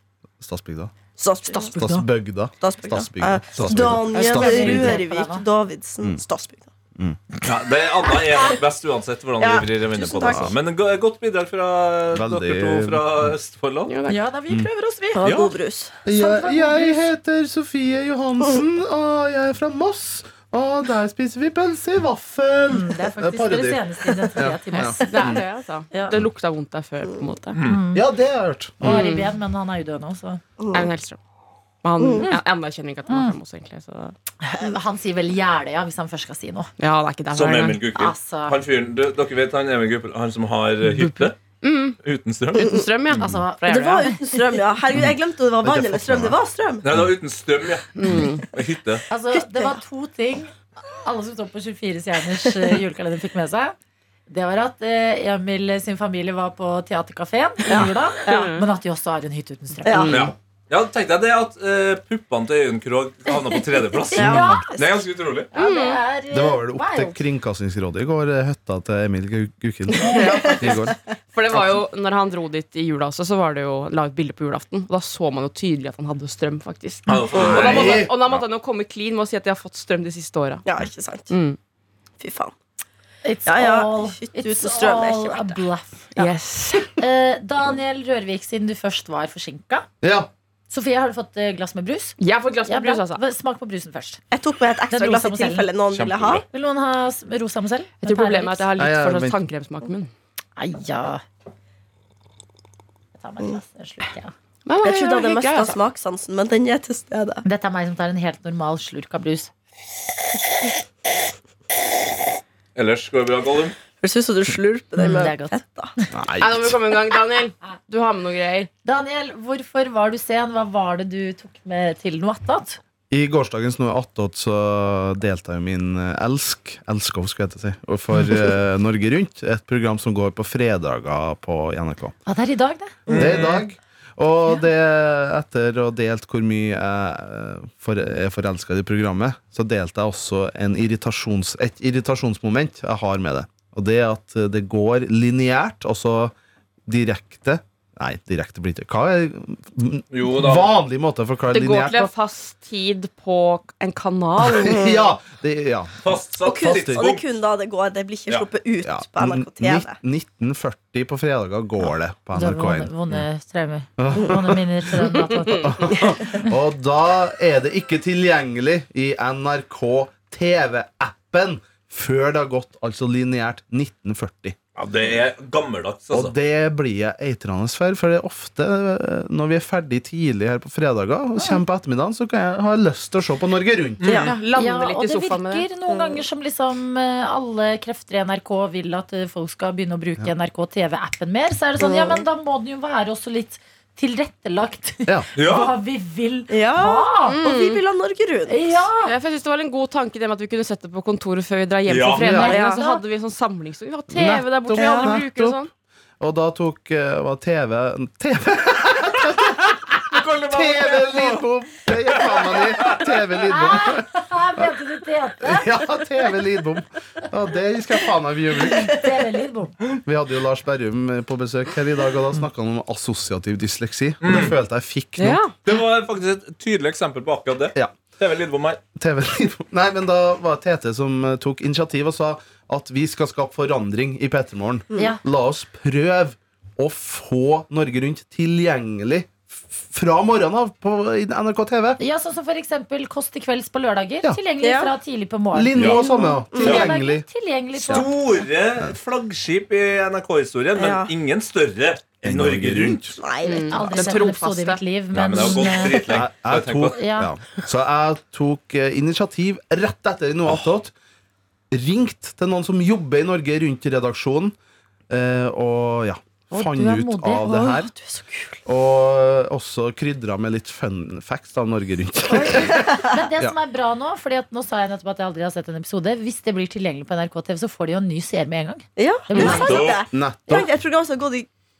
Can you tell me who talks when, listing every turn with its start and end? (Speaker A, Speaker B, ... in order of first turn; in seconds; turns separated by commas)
Speaker A: 0.4-0.9, Speaker B: 1.2-1.8, Speaker C: 1.4-2.1, Speaker A: 1.7-5.0, Speaker B: 2.6-6.7, Speaker C: 3.7-5.4, Speaker D: 7.4-13.9, Speaker B: 9.4-10.5, Speaker A: 10.2-10.5, Speaker A: 12.1-13.3, Speaker E: 13.9-14.2, Speaker C: 14.1-15.2, Speaker B: 15.1-15.9, Speaker D: 15.2-15.5, Speaker A: 16.0-23.8, Speaker C: 16.1-17.1, Speaker C: 22.7-26.2, Speaker A: 24.3-25.3, Speaker E: 24.7-27.6, Speaker C: 27.6-28.0, Speaker A: 27.9-29.0, Speaker C: 28.8-30.4, Speaker E: 28.8-29.3, Speaker B: 30.6-30.9, Speaker E: 30.7-31.2, Speaker E: 31.8-34.1, Speaker B: 32.0-32.2, Speaker C: 33.1-33.3, Speaker C: 34.4-36.7, Speaker E: 36.8-37.9, Speaker D: 37.3-41.4, Speaker C: 37.9-38.5, Speaker E: 40.8-42.0, Speaker D: 42.0-43.2, Speaker E: 42.5-44.1, Speaker C: 43.2-44.2, Speaker B: 43.8-46.9, Speaker A: 45.6-46.4, Speaker D: 46.8-49.0, Speaker E: 48.0-48.5, Speaker C: 49.1-53.7, Speaker C: 54.3-60.2, Speaker B: 57.7-58.4, Speaker E: 57.8-58.6, Speaker B: 59.8-60.3, Speaker E: 59.9-60.3, Speaker D: 60.1-65.5, Speaker C: 63.3-64.7, Speaker B: 64.1-65.0, Speaker A: 64.3-64.6, Speaker E: 65.5-66.0, Speaker C: 65.5-67.2, Speaker A: 66.3-71.0, Speaker B: 70.1-70.7, Speaker E: 70.2-70.8, Speaker E: 71.3-80.6, Speaker A: 71.5-71.8, Speaker D: 77.1-78.4, Speaker B: 77.3-77.8, Speaker A: 77.5-78.2, Speaker B: 80.6-81.3, Speaker E: 81.3-81.6, Speaker B: 82.2-82.5, Speaker C: 83.2-86.3, Speaker B: 83.5-85.6, Speaker E: 86.2-86.9, Speaker C: 87.0-89.9, Speaker A: 90.0-90.3, Speaker C: 90.7-94.2, Speaker E: 92.2-93.2, Speaker B: 94.3-96.4, Speaker C: 94.9-95.7, Speaker D: 95.9-96.4, Speaker C: 96.5-98.7, Speaker E: 98.0-100.1, Speaker A: 98.8-99.4, Speaker C: 100.6-101.2, Speaker C: 103.2-104.3, Speaker E: 104.7-105.8, Speaker B: 104.8-107.4, Speaker C: 107.4-109.5, Speaker D: 112.7-113.8, Speaker B: 114.0-115.9, Speaker C: 115.0-115.5, Speaker A: 116.1-116.8, Speaker E: 116.4-118.7, Speaker C: 118.8-122.8, Speaker A: 123.1-132.1, Speaker C: 132.2-133.0, Speaker D: 133.1-133.6, Speaker A: 133.1-146.3, Speaker A: 146.8-152.1, Speaker D: 150.1-150.7, Speaker E: 151.5-154.9, Speaker A: 154.4-157.0, Speaker B: 154.6-155.1, Speaker D: 156.0-157.3, Speaker B: 156.4-159.9, Speaker A: 158.8-163.2, Speaker C: 162.3-166.5, Speaker A: 164.0-174.6, Speaker D: 174.7-176.3, Speaker A: 176.1-184.2, Speaker D: 184.0-184.3, Speaker B: 184.0-184.3, Speaker E: 184.2-185.7, Speaker C: 184.5-197.4, Speaker B: 185.9-186.2, Speaker B: 191.8-192.2, Speaker D: 195.3-195.7, Speaker B: 196.5-198.8, Speaker E: 197.3-197.8, Speaker C: 198.5-199.1, Speaker E: 199.0-205.7, Speaker D: 201.9-202.2, Speaker A: 202.2-202.5, Speaker C: 202.2-203.0, Speaker B: 202.5-202.8, Speaker A: 204.1-205.6, Speaker B: 204.7-205.2, Speaker A: 206.2-214.7, Speaker D: 210.0-211.4, Speaker D: 212.1-213.0, Speaker C: 213.5-215.7, Speaker A: 215.4-219.0, Speaker C: 218.7-219.8, Speaker A: 220.0-225.4, Speaker D: 224.2-224.6, Speaker E: 225.2-225.6, Speaker D: 225.6-228.8, Speaker A: 228.9-242.0, Speaker C: 234.9-235.2, Speaker C: 242.0-248.1, Speaker B: 244.6-244.9, Speaker A: 245.5-248.1, Speaker D: 245.7-246.0, Speaker B: 246.5-246.9, Speaker D: 247.9-253.1, Speaker B: 250.7-251.1, Speaker A: 252.2-253.2, Speaker B: 253.2-254.0, Speaker E: 253.4-254.8, Speaker C: 253.4-256.0, Speaker D: 255.1-257.0, Speaker A: 256.1-260.9, Speaker C: 256.9-257.3, Speaker A: 261.7-264.5, Speaker A: 265.1-267.9, Speaker C: 266.5-267.5, Speaker B: 267.4-268.6, Speaker A: 268.6-273.5, Speaker C: 272.3-279.9, Speaker B: 272.5-273.1, Speaker B: 279.0-281.5, Speaker D: 279.3-280.0, Speaker A: 280.1-280.7